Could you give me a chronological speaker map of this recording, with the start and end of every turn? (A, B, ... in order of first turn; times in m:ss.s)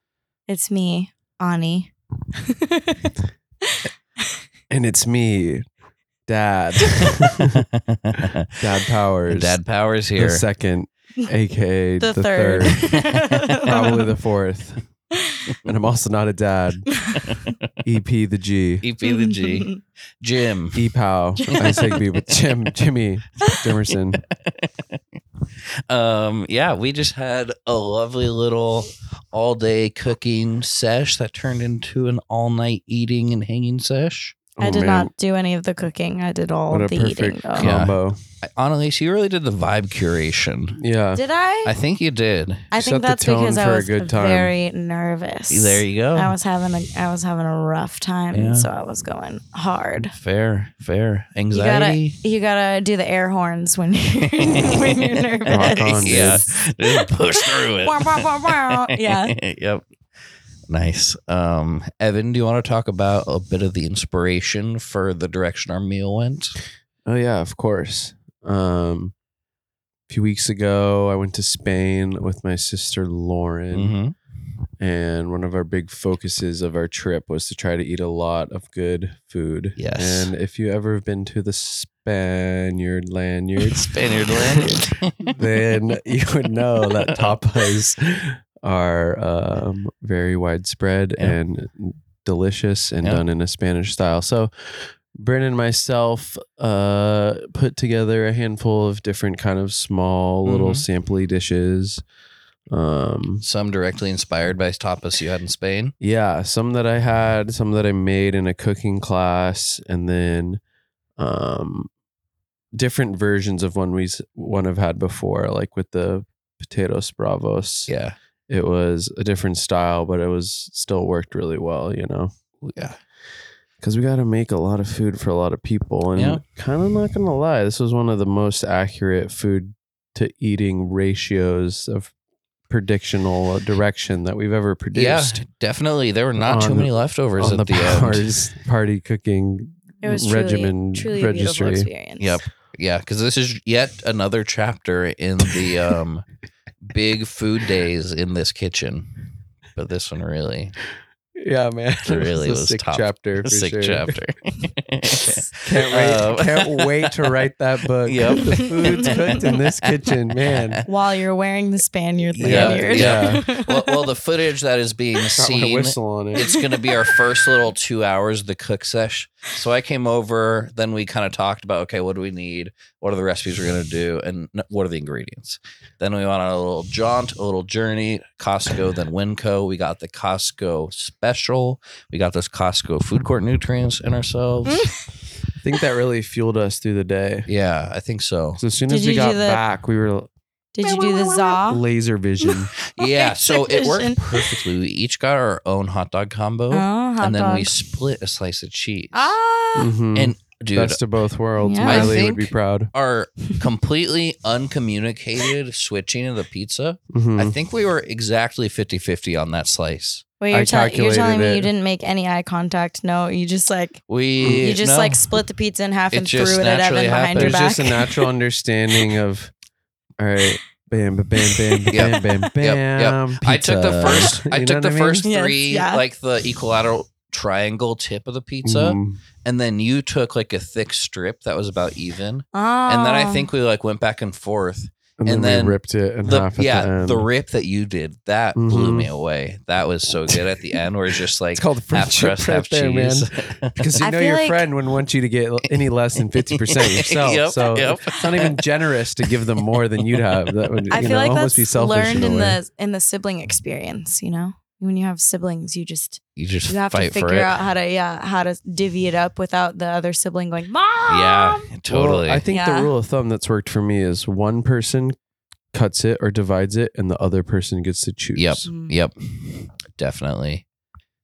0:00.5-0:01.9 A
0:02.5-0:03.1 A
0:04.7-0:05.6 B
0:06.3-0:07.6 B
0:07.9-0:08.3 C
0:08.6-0:09.6 B
0:09.3-0:10.4 C
0:10.2-0:13.0 B
0:12.0-0:14.1 A
0:13.6-0:14.8 B
0:15.6-0:16.9 B
0:17.1-0:17.7 C
0:17.8-0:18.8 B
0:18.8-0:20.8 C
0:19.0-0:19.8 A
0:20.7-0:24.2 B
0:21.5-0:22.0 C
0:21.5-0:22.0 A
0:24.5-0:25.0 C
0:25.9-0:34.4 C
0:34.6-0:35.1 B
0:34.6-0:37.7 A
0:36.7-0:38.2 B
0:37.6-0:40.8 C
0:40.8-0:41.2 B
0:41.1-0:41.8 A
0:41.6-0:42.7 C
0:42.7-0:50.1 A
0:42.7-0:44.5 B
0:45.5-0:46.3 C
0:48.3-0:48.7 C
0:50.1-0:52.2 C
0:51.5-0:59.4 A
0:54.6-0:59.8 C
0:55.5-0:56.5 B
1:00.7-1:06.6 C
1:07.0-1:09.1 B
1:10.1-1:13.9 B
1:13.7-1:14.1 C
1:14.8-1:24.8 B
1:19.8-1:20.3 C
1:23.6-1:25.3 C
1:25.3-1:42.0 B
1:27.0-1:27.3 C
1:40.4-1:40.9 C
1:42.7-1:43.4 B
1:43.4-1:45.9 C
1:46.0-1:50.6 B
1:51.2-1:51.9 B
1:52.8-1:57.9 B
1:57.9-1:58.2 C
1:58.5-2:02.3 B
2:02.6-2:03.0 C
2:03.8-2:12.1 B
2:06.2-2:06.4 C
2:12.7-2:15.4 B
2:14.9-2:18.3 C
2:16.4-2:21.9 B
2:20.0-2:22.4 A
2:22.2-2:26.2 C
2:26.8-2:29.1 C
2:29.8-2:30.8 C
2:31.4-2:34.1 B
2:32.1-2:37.4 C
2:35.6-2:40.8 B
2:38.0-2:40.8 C
2:38.5-2:39.6 A
2:40.8-2:44.1 A
2:42.3-3:04.9 C
2:42.4-2:43.4 B
2:45.3-2:46.5 B
2:46.4-2:47.2 A
3:04.7-3:05.0 A
3:05.6-3:07.5 B
3:07.5-3:08.6 C
3:08.6-3:10.3 B
3:08.8-3:09.6 A
3:10.8-3:11.8 A
3:10.8-3:12.7 B
3:12.4-3:14.6 A
3:12.9-3:19.4 C
3:16.7-3:17.7 A
3:19.1-3:20.0 A
3:19.8-3:22.9 B
3:20.1-3:21.0 C
3:21.6-3:22.3 A
3:21.8-3:30.2 C
3:27.1-3:27.6 B
3:30.4-3:38.3 A
3:30.5-3:31.7 B
3:34.1-3:35.4 C
3:36.1-3:37.7 C
3:37.3-3:39.5 B
3:40.2-3:45.2 B
3:41.4-3:42.2 A
3:41.9-4:03.8 C
3:45.2-3:46.0 A
3:48.6-3:49.2 B
3:52.5-3:53.5 A
3:55.2-3:57.3 B
3:58.5-3:59.1 B
4:00.3-4:00.7 B
4:01.5-4:12.6 B
4:04.0-4:04.7 A
4:06.5-4:08.6 C
4:10.4-4:10.8 C
4:10.9-4:21.6 A
4:16.4-4:17.6 C
4:21.1-4:22.4 C
4:21.9-4:25.1 B
4:22.5-4:22.9 A
4:25.7-4:28.7 B
4:28.4-4:30.6 C
4:28.6-4:29.0 A